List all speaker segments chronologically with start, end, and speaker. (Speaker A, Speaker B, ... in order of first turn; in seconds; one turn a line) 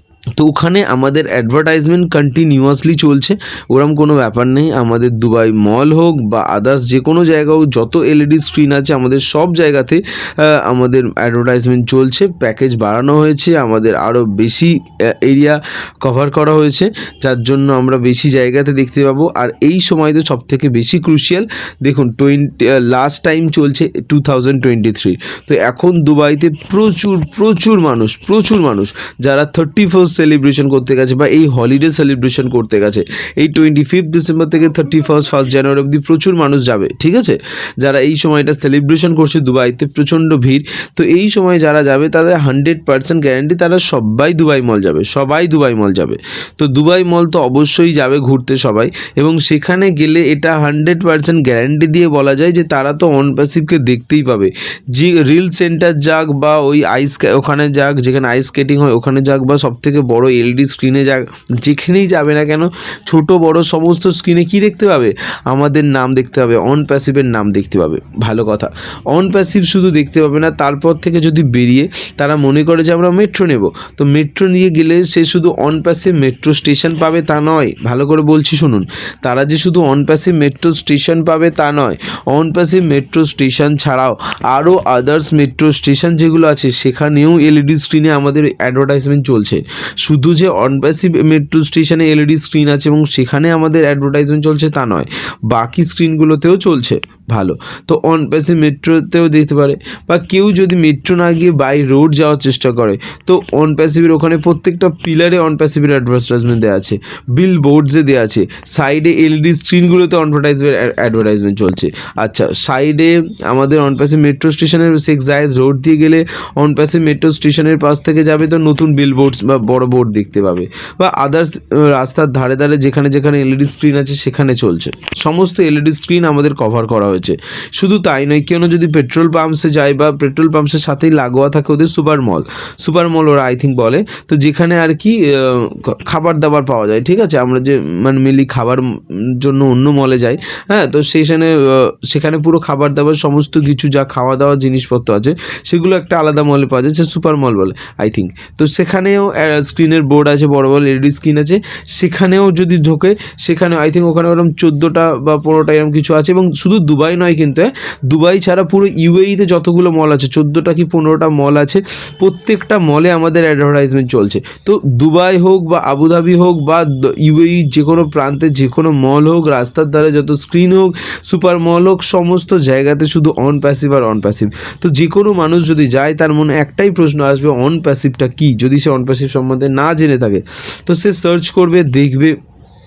Speaker A: 0.4-182.4